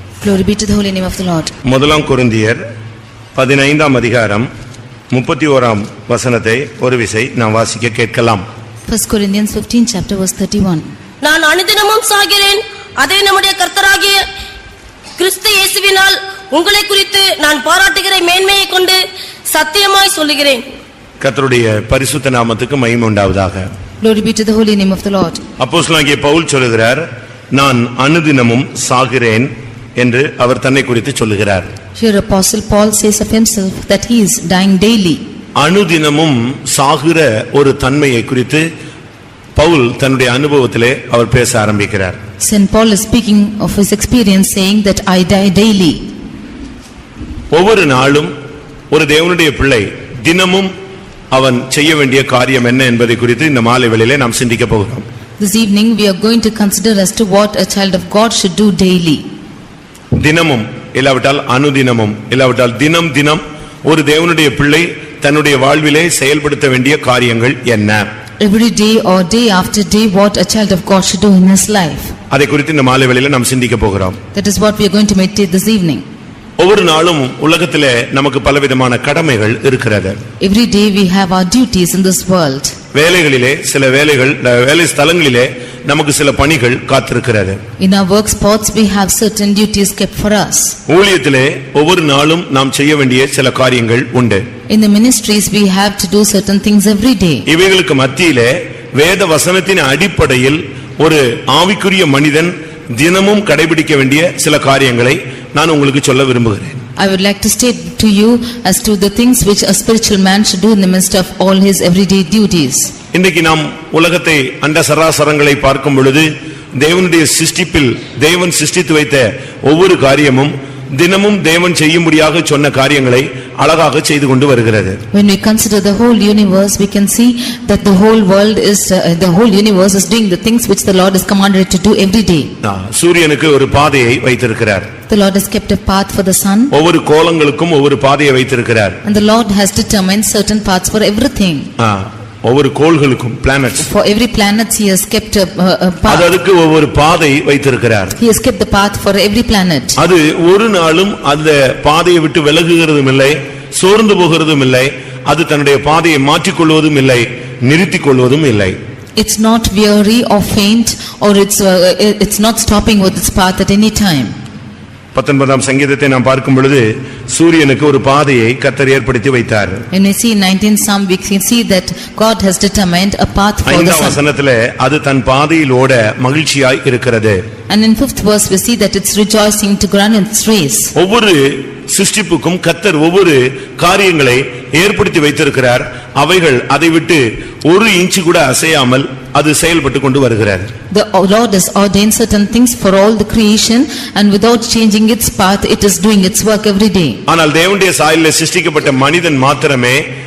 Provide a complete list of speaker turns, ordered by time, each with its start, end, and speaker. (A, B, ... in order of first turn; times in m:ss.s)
0:00.2-0:01.5 A
0:01.6-0:02.6 B
0:03.4-0:04.5 B
0:05.1-0:08.4 B
0:08.9-0:10.9 A
0:11.2-0:14.2 C
0:15.2-0:20.6 C
0:21.2-0:23.7 B
0:24.0-0:25.4 A
0:25.6-0:31.7 B
0:32.0-0:35.2 A
0:35.6-0:38.6 B
0:39.6-0:42.2 B
0:42.4-0:46.0 A
0:47.5-0:48.3 B
0:48.9-0:50.7 B
0:51.3-0:55.0 B
0:55.4-0:59.2 A
1:00.2-1:08.1 B
1:08.4-1:12.1 A
1:12.3-1:14.2 B
1:14.3-1:16.0 A
1:16.6-1:20.2 B
1:20.4-1:22.7 A
1:22.9-1:27.6 B
1:27.8-1:30.8 A
1:30.9-1:34.4 B
1:34.7-1:37.4 A
1:37.5-1:46.8 B
1:47.0-1:52.9 A
1:53.1-2:05.0 B
2:05.1-2:12.5 A
2:12.6-2:14.9 B
2:15.1-2:16.7 A
2:16.7-2:19.0 B
2:19.0-2:21.7 A
2:21.8-2:23.9 B
2:23.8-2:26.3 A
2:26.1-2:28.2 B
2:28.2-2:30.0 A
2:30.0-2:38.8 B
2:39.2-2:44.3 A
2:45.1-2:49.8 B
2:49.9-2:54.2 A
2:53.6-2:57.4 B
2:57.7-3:00.9 A
3:00.9-3:10.7 B
3:10.9-3:17.2 A
3:17.3-3:20.0 B